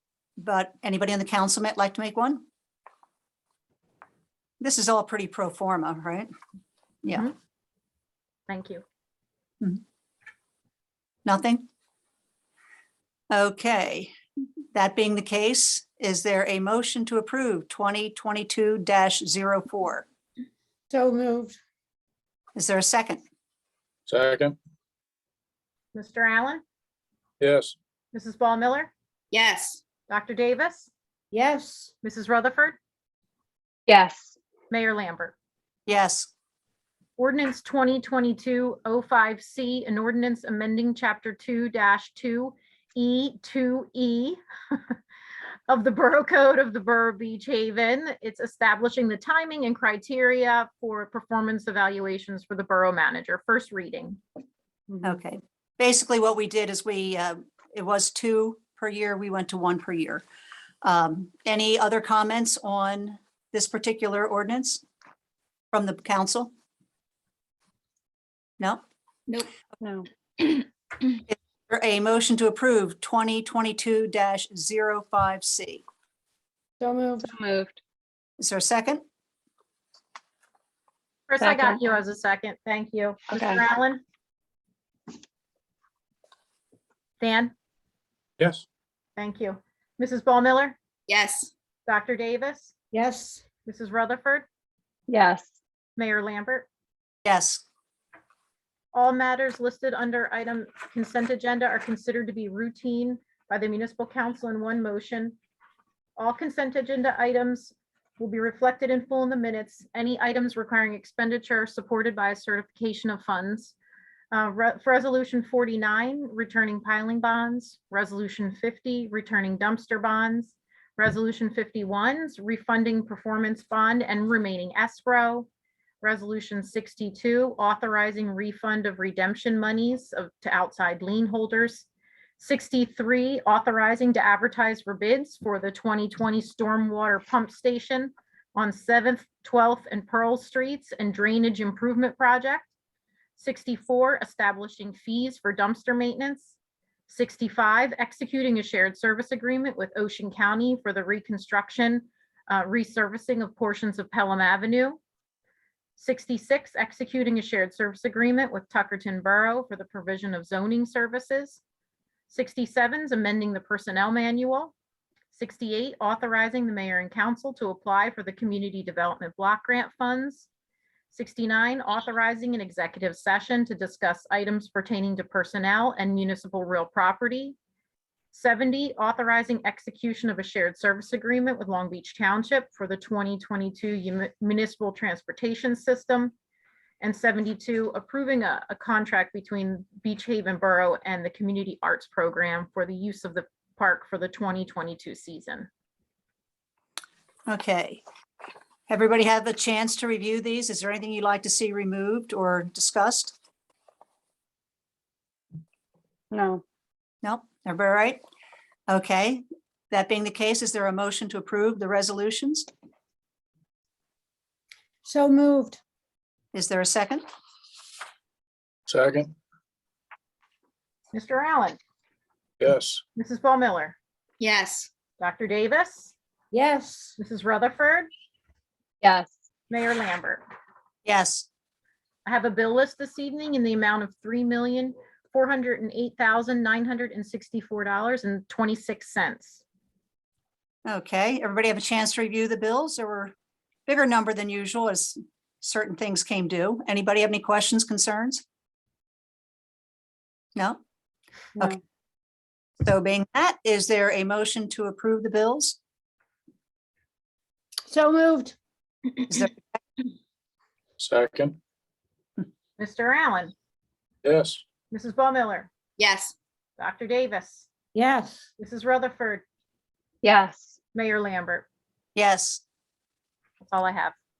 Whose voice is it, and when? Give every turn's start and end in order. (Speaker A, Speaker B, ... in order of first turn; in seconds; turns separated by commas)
Speaker A: 0.4-2.4, Speaker A: 4.6-6.3, Speaker B: 7.1-7.3, Speaker B: 8.5-8.8, Speaker A: 11.2-11.7, Speaker A: 13.3-14.1, Speaker A: 14.7-20.1, Speaker C: 20.9-21.5, Speaker A: 22.6-23.2, Speaker D: 24.1-24.6, Speaker B: 25.9-26.6, Speaker D: 27.4-27.7, Speaker B: 28.1-28.9, Speaker E: 29.3-29.8, Speaker B: 30.1-30.9, Speaker C: 31.3-31.9, Speaker B: 32.0-32.8, Speaker F: 33.9-34.3, Speaker B: 34.7-35.3, Speaker A: 35.9-36.3, Speaker B: 37.2-45.0, Speaker B: 45.7-54.2, Speaker A: 55.0-60.2, Speaker A: 60.8-64.8, Speaker A: 65.7-66.5, Speaker A: 68.6-68.8, Speaker A: 71.3-75.8, Speaker C: 76.8-77.3, Speaker F: 77.2-77.7, Speaker A: 78.4-79.0, Speaker B: 81.3-84.0, Speaker F: 81.4-81.8, Speaker F: 83.3-83.6, Speaker B: 87.2-87.5, Speaker B: 89.2-90.8, Speaker E: 91.1-91.5, Speaker B: 91.9-92.7, Speaker C: 92.9-93.4, Speaker B: 93.6-94.5, Speaker F: 95.1-95.5, Speaker B: 96.0-96.7, Speaker A: 97.2-97.6, Speaker B: 98.9-105.3, Speaker B: 106.2-113.7, Speaker B: 114.3-125.5, Speaker B: 126.0-131.9, Speaker B: 132.4-142.7, Speaker B: 143.4-146.5, Speaker B: 147.1-155.0, Speaker B: 156.0-161.6, Speaker B: 162.3-164.7, Speaker B: 165.3-170.5, Speaker B: 171.1-177.6, Speaker B: 178.3-186.3, Speaker B: 187.0-195.7, Speaker A: 197.5-198.0, Speaker A: 198.9-203.4, Speaker C: 206.3-206.6, Speaker A: 207.2-208.2, Speaker A: 208.9-212.7, Speaker C: 215.0-215.8, Speaker A: 216.5-217.2, Speaker D: 218.9-219.3, Speaker B: 221.1-221.8, Speaker D: 222.6-223.0, Speaker B: 223.2-223.9, Speaker E: 224.4-224.9, Speaker B: 225.2-226.1, Speaker C: 226.5-227.2, Speaker B: 227.2-228.1, Speaker F: 229.0-229.3, Speaker B: 229.7-230.4, Speaker A: 231.0-231.5, Speaker B: 232.2-239.6, Speaker A: 240.8-243.3, Speaker A: 243.9-248.4, Speaker A: 250.6-250.8, Speaker A: 252.8-255.8, Speaker C: 257.9-258.5, Speaker A: 259.3-259.6, Speaker D: 261.0-261.6, Speaker B: 262.8-263.5, Speaker D: 264.2-264.6, Speaker B: 264.9-265.7, Speaker E: 266.0-266.3, Speaker B: 266.8-267.7, Speaker C: 267.9-268.4, Speaker B: 268.6-269.4, Speaker F: 270.2-270.7, Speaker B: 270.9-271.6, Speaker A: 272.1-272.6, Speaker B: 273.6-274.1